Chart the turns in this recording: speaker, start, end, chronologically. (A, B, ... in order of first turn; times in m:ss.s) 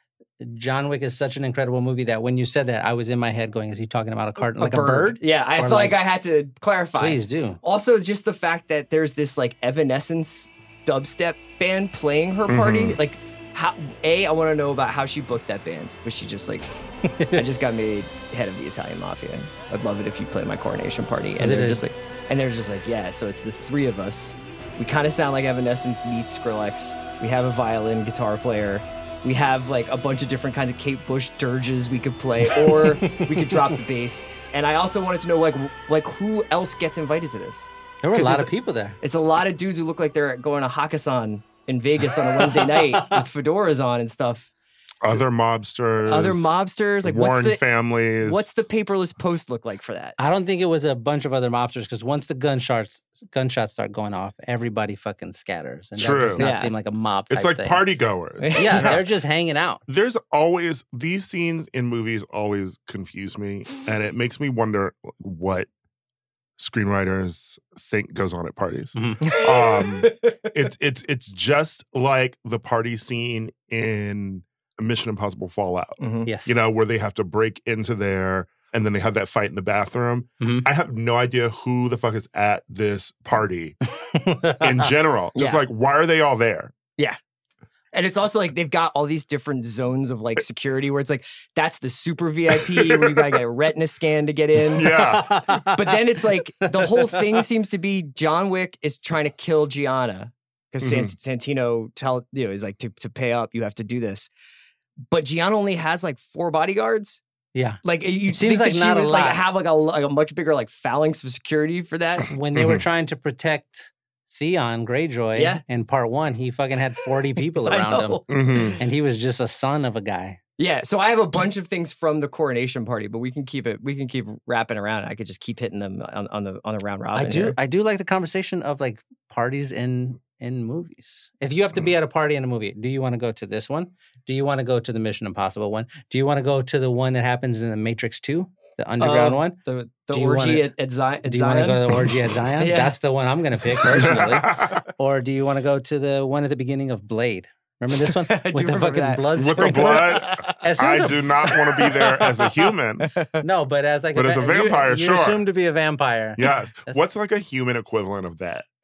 0:00.4-0:06.0 A
0:04.4-0:16.7 B
0:07.0-0:07.6 A
0:12.5-0:13.0 C
0:17.0-0:17.4 A
0:17.3-0:44.5 B
0:21.4-0:21.8 A
0:32.7-0:33.6 A
0:38.0-0:39.0 A
0:42.4-0:43.2 A
0:45.0-0:48.5 C
0:46.0-0:50.2 B
0:50.2-0:57.8 A
0:56.0-0:56.5 C
0:56.4-0:56.7 B
0:57.3-0:59.0 C
0:58.4-0:59.0 B
0:58.6-0:59.8 A
0:59.9-1:05.7 C
1:06.6-1:23.8 C
1:09.0-1:09.3 A
1:09.2-1:10.5 B
1:16.0-1:16.3 B
1:16.2-1:16.6 A
1:20.4-1:20.7 A
1:24.1-1:24.9 A
1:24.6-1:26.8 C
1:25.4-1:25.6 B
1:27.9-1:35.0 B
1:32.8-1:33.2 C
1:34.7-1:35.4 C
1:34.9-1:36.0 A
1:35.7-1:44.3 B
1:36.7-1:37.2 A
1:40.8-1:41.1 C
1:45.1-1:47.2 B
1:47.6-1:49.4 A
1:47.8-1:52.3 B
1:52.3-1:58.2 A
1:52.6-1:52.8 C
1:55.4-1:55.6 B
1:57.7-1:58.8 B
1:58.3-1:58.8 C
1:58.8-2:00.4 A
2:00.6-2:07.6 B
2:07.2-2:19.6 A
2:19.0-2:22.0 B
2:20.1-2:20.7 A
2:21.2-2:31.2 A
2:22.6-2:23.0 B
2:23.9-2:24.8 C
2:28.0-2:30.6 B
2:29.4-2:33.1 C
2:31.5-2:32.2 B
2:33.0-2:33.4 B
2:33.4-2:37.1 A
2:34.2-2:35.4 C
2:36.4-2:38.7 C